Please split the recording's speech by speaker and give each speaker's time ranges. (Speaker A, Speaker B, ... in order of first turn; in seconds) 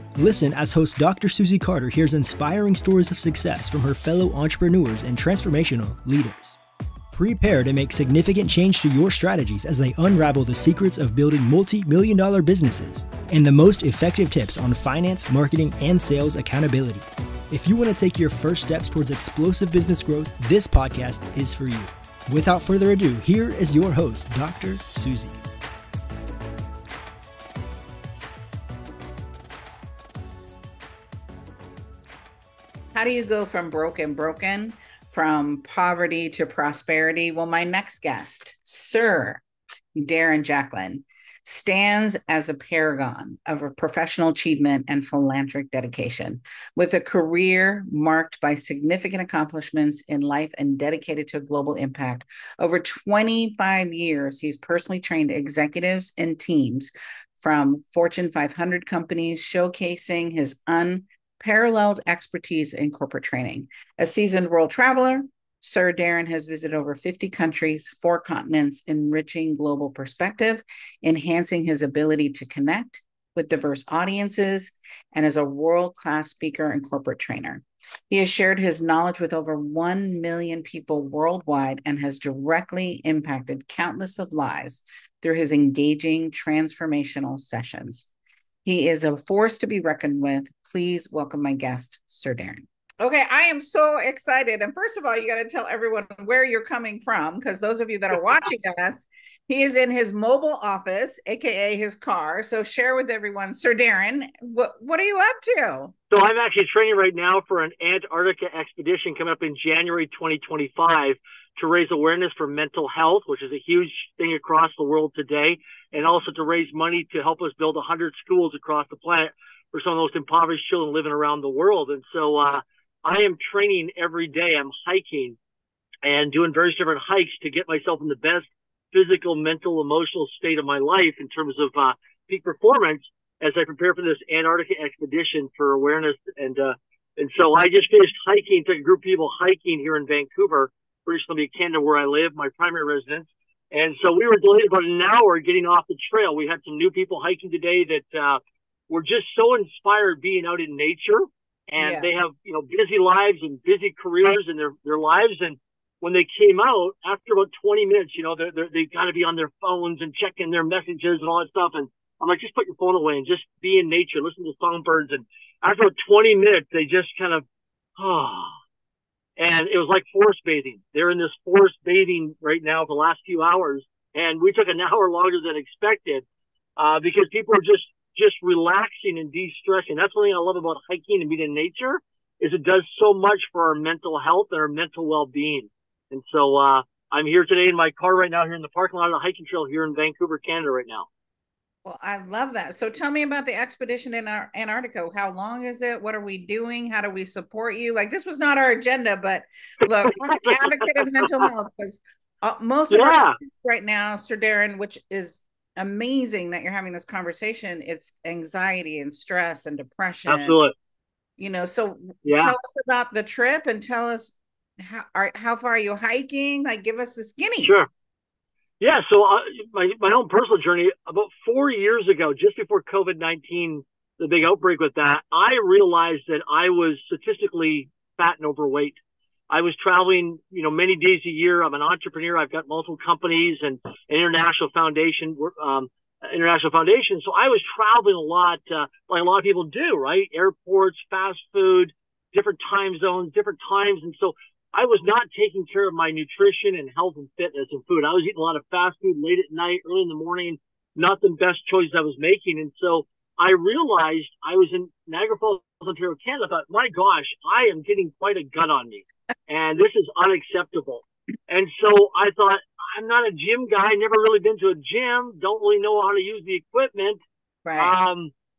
Speaker A: 0.1-6.6, 7.1-25.4
Speaker B: 32.9-39.4, 40.0-88.1, 88.6-105.9, 151.8-152.1, 191.8-210.6, 211.4-217.8, 267.6-268.0
Speaker C: 106.1-125.4, 126.0-167.4, 168.0-168.5, 169.4-176.2, 176.8-191.1, 199.8-201.5, 202.9-203.4, 210.2-210.7, 212.2-212.5, 217.6-217.9, 218.8-229.0, 229.5-267.2, 267.8-268.3